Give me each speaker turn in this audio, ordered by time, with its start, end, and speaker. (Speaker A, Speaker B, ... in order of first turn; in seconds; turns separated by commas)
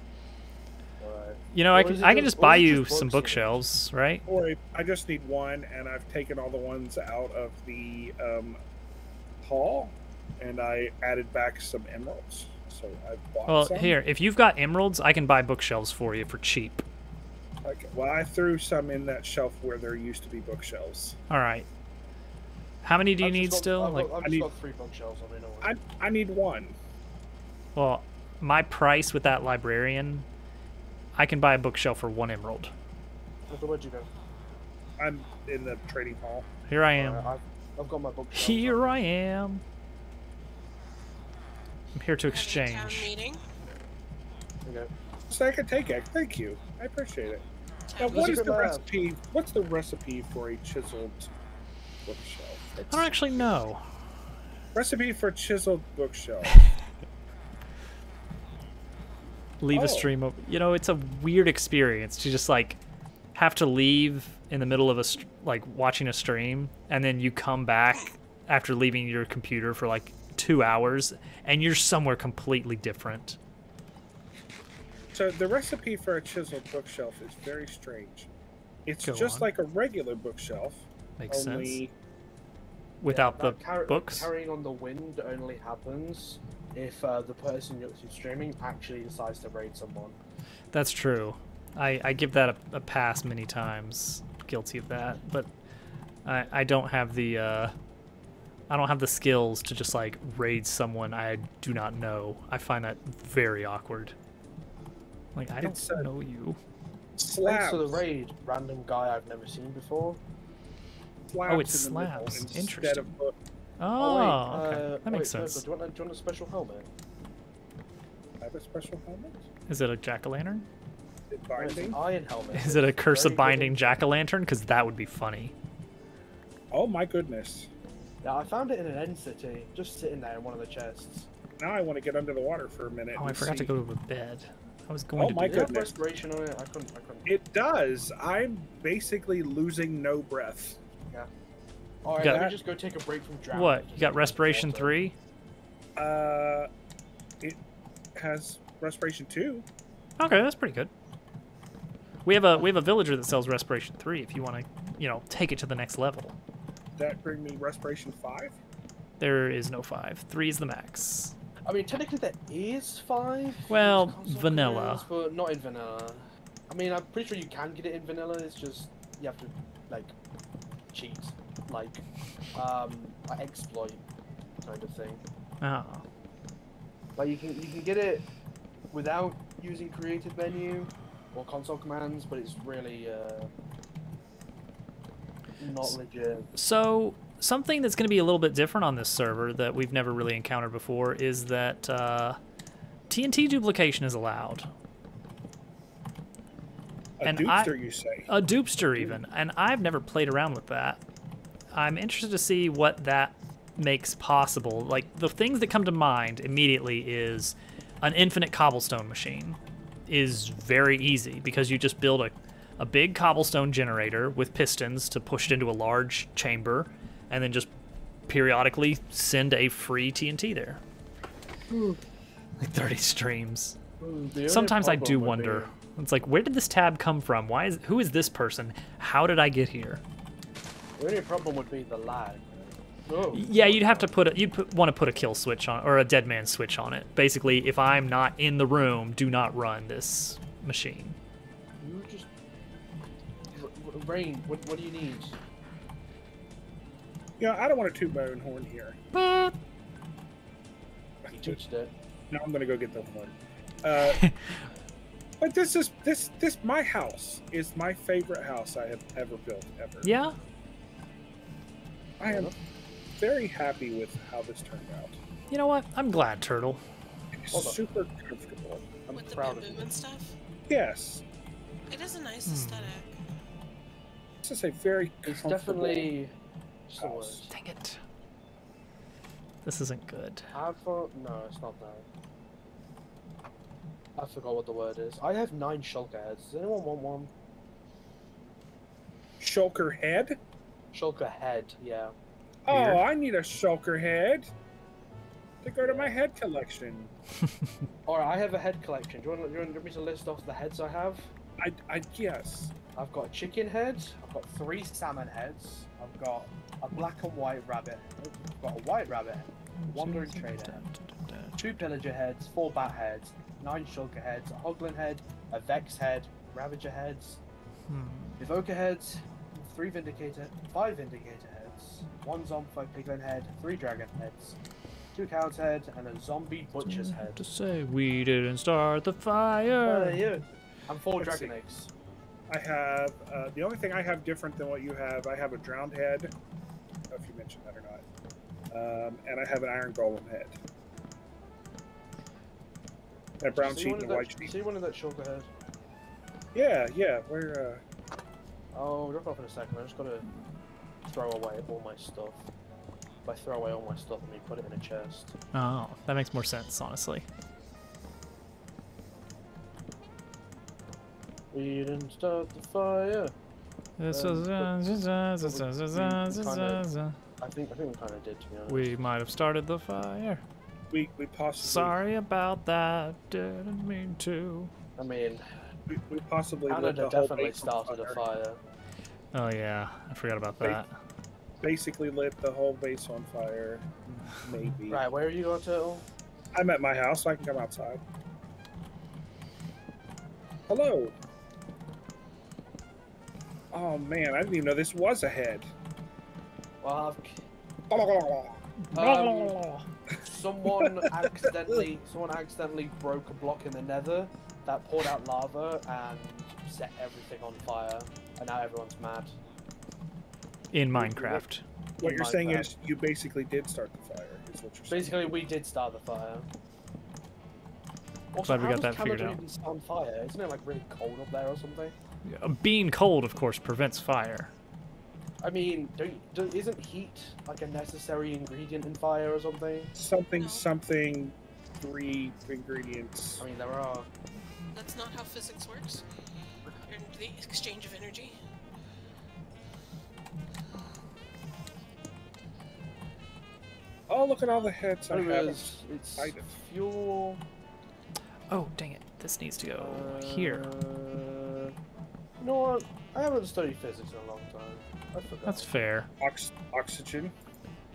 Speaker A: 1.0-3.6, Speaker B: 1.5-4.2, Speaker C: 4.3-8.6, Speaker C: 9.4-14.0, Speaker B: 13.5-16.8, Speaker C: 17.6-21.2, Speaker B: 21.3-21.7, Speaker B: 22.8-24.1, Speaker A: 23.2-25.8, Speaker C: 24.2-24.5, Speaker C: 25.6-26.8, Speaker B: 27.8-30.3, Speaker B: 31.2-32.7, Speaker A: 33.5-34.1, Speaker C: 35.0-36.5, Speaker B: 36.7-37.3, Speaker A: 37.0-39.0, Speaker B: 38.4-39.6, Speaker B: 42.0-43.1, Speaker D: 42.3-43.4, Speaker A: 44.6-44.9, Speaker C: 45.3-47.4, Speaker D: 47.9-48.3, Speaker A: 48.0-48.9, Speaker C: 48.0-51.3, Speaker C: 52.0-52.7, Speaker A: 52.8-53.5, Speaker B: 52.9-53.8, Speaker C: 54.7-56.6, Speaker B: 59.6-62.8, Speaker C: 59.7-60.1, Speaker B: 63.4-73.4, Speaker C: 75.1-78.3, Speaker C: 78.9-81.9, Speaker B: 79.0-79.5, Speaker B: 81.2-81.8, Speaker B: 83.0-84.3, Speaker A: 83.1-90.2, Speaker B: 90.7-95.5, Speaker B: 96.2-97.7, Speaker B: 98.7-104.2, Speaker B: 105.3-106.6, Speaker C: 105.6-106.1, Speaker C: 107.2-108.0, Speaker A: 107.4-110.2, Speaker C: 111.3-113.4, Speaker B: 111.5-113.1, Speaker B: 113.8-115.6, Speaker A: 114.0-116.9, Speaker C: 118.4-119.5, Speaker B: 119.7-120.7, Speaker C: 121.3-122.0, Speaker A: 121.6-124.0, Speaker B: 122.5-125.5, Speaker C: 126.7-127.7, Speaker A: 128.2-131.3, Speaker C: 131.6-133.7, Speaker B: 133.2-135.7, Speaker C: 135.2-136.0, Speaker A: 135.4-137.3, Speaker C: 137.3-140.8, Speaker A: 142.1-145.0, Speaker B: 142.2-142.4, Speaker C: 142.2-142.6, Speaker B: 143.5-145.1, Speaker C: 146.0-146.7, Speaker C: 148.2-149.7, Speaker B: 150.2-150.9, Speaker B: 152.2-156.4, Speaker C: 157.0-158.6, Speaker B: 159.2-161.3, Speaker A: 161.7-170.2, Speaker B: 163.7-165.1, Speaker A: 170.9-172.0, Speaker A: 172.5-174.0, Speaker A: 174.6-175.2, Speaker B: 175.6-176.1, Speaker A: 177.2-178.3, Speaker A: 178.9-183.5, Speaker A: 185.6-186.5, Speaker B: 186.6-192.4, Speaker B: 193.1-194.7, Speaker C: 197.2-198.3, Speaker B: 197.2-197.8, Speaker B: 198.3-201.0, Speaker B: 201.7-217.7, Speaker B: 218.3-220.8, Speaker A: 221.7-222.0, Speaker B: 222.6-223.8, Speaker A: 224.0-225.7, Speaker B: 224.5-230.0, Speaker A: 231.0-234.1, Speaker B: 233.3-241.2, Speaker A: 241.8-242.3, Speaker A: 243.5-245.4, Speaker C: 247.4-249.0, Speaker B: 249.1-249.6, Speaker C: 251.2-251.6, Speaker A: 251.3-251.9, Speaker C: 252.3-254.2, Speaker B: 254.2-254.7, Speaker C: 255.4-260.1, Speaker B: 260.0-260.4, Speaker C: 262.2-262.5, Speaker A: 262.3-262.5, Speaker C: 263.2-265.2, Speaker B: 265.5-266.8, Speaker C: 267.4-269.0, Speaker A: 267.5-267.8, Speaker A: 269.1-269.9, Speaker D: 269.1-270.4, Speaker C: 270.7-271.2, Speaker D: 271.9-273.2, Speaker B: 272.5-272.9, Speaker C: 274.4-276.1, Speaker A: 275.3-276.3, Speaker A: 276.9-277.5, Speaker C: 277.0-277.4, Speaker B: 277.5-278.0, Speaker B: 279.6-280.5, Speaker A: 280.5-282.1, Speaker A: 284.2-287.3, Speaker C: 289.4-290.4, Speaker A: 290.9-292.1, Speaker C: 292.7-294.5, Speaker B: 292.7-293.0, Speaker C: 295.6-297.1, Speaker A: 295.8-296.2, Speaker B: 297.5-297.8, Speaker A: 298.1-301.3, Speaker C: 301.6-302.7, Speaker A: 303.0-310.8, Speaker B: 309.8-311.8, Speaker A: 311.6-317.4, Speaker B: 317.9-318.4, Speaker A: 318.4-324.6, Speaker A: 325.1-327.5, Speaker B: 326.8-330.3, Speaker A: 329.8-331.9, Speaker C: 331.1-331.5, Speaker C: 332.5-336.3, Speaker C: 337.1-338.0, Speaker C: 338.7-340.6, Speaker C: 343.4-344.5, Speaker A: 343.6-345.5, Speaker C: 346.6-347.8, Speaker A: 348.7-350.3, Speaker A: 351.1-352.4, Speaker A: 353.2-355.3, Speaker B: 355.5-357.3, Speaker A: 361.5-363.3, Speaker B: 364.0-367.2, Speaker A: 364.1-364.7, Speaker A: 365.4-366.8, Speaker A: 367.4-368.9, Speaker B: 368.7-370.4, Speaker C: 370.9-372.0, Speaker B: 371.6-374.7, Speaker A: 375.0-375.4, Speaker C: 375.9-378.2, Speaker A: 376.7-378.6, Speaker B: 379.3-380.9, Speaker C: 381.6-385.1, Speaker A: 384.9-386.1, Speaker C: 386.5-388.0, Speaker C: 390.7-391.1, Speaker C: 393.7-395.7, Speaker A: 396.8-397.4, Speaker C: 397.9-399.6, Speaker A: 398.9-399.6, Speaker A: 400.2-409.4, Speaker C: 400.7-401.8, Speaker B: 410.7-411.6, Speaker C: 411.0-411.4, Speaker C: 412.0-415.3, Speaker A: 412.0-412.7, Speaker A: 414.9-416.5, Speaker A: 418.3-422.0, Speaker B: 418.4-419.4, Speaker B: 422.2-424.5, Speaker A: 425.4-429.9, Speaker C: 429.9-433.4, Speaker D: 430.4-430.6, Speaker A: 433.4-434.1, Speaker D: 434.7-436.1, Speaker D: 436.8-438.4, Speaker C: 444.1-446.6, Speaker A: 445.1-447.4, Speaker B: 448.5-450.7, Speaker A: 449.8-451.7, Speaker A: 452.4-455.7, Speaker B: 455.5-456.1, Speaker C: 456.2-457.3